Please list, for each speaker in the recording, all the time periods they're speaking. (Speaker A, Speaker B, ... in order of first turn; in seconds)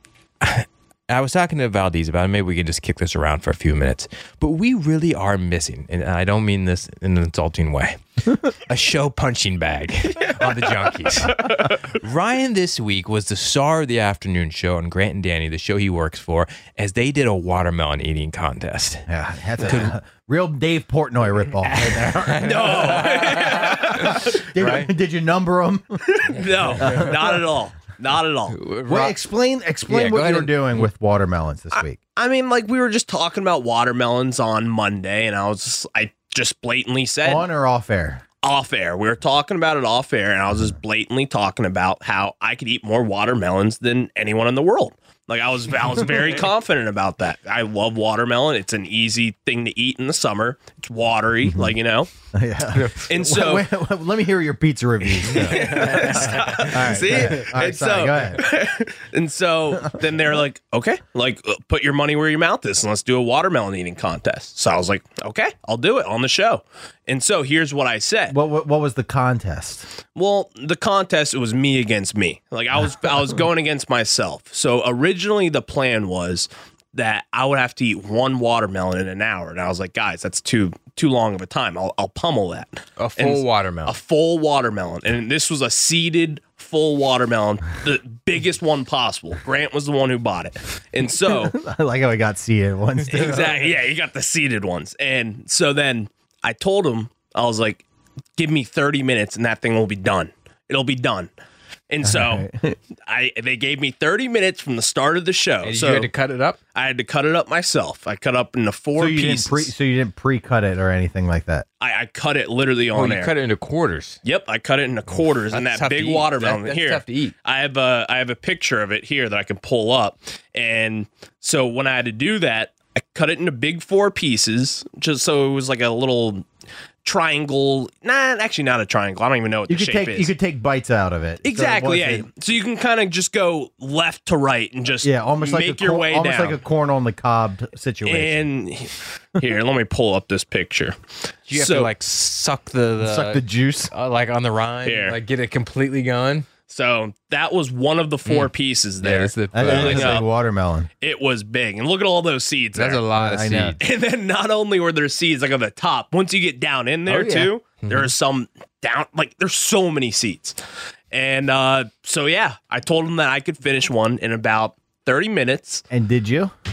Speaker A: 0.4-19.1, 19.6-19.9, 21.6-24.9, 26.4-27.1, 28.5-29.1, 29.9-30.8, 52.8-53.0, 55.3-57.5, 83.0-84.0, 105.6-106.6, 112.9-114.2, 115.5-117.3, 141.5-146.4, 148.2-148.5, 149.0-150.2, 152.7-153.8, 157.1-158.1
Speaker B: 19.1-26.2, 26.8-27.4, 28.9-32.0, 37.2-38.2, 51.4-51.8, 52.3-58.4, 68.3-69.9, 91.3-93.7, 102.0-102.7, 109.0-111.7, 129.7-132.3, 135.0-138.4, 143.0-143.9, 149.5-150.9, 153.1-153.8, 165.9-166.5
Speaker C: 22.4-24.2, 26.2-28.6, 32.1-37.5, 38.4-52.1, 53.1-53.6, 55.2-68.3, 70.1-91.5, 93.1-97.8, 98.3-101.3, 101.9-102.5, 103.0-106.1, 106.7-109.7, 111.8-113.3, 114.2-126.4, 127.0-130.3, 131.4-136.6, 138.1-141.0, 141.5-141.9, 144.8-145.2, 146.7-150.2, 151.0-153.0, 153.8-160.6, 161.1-165.8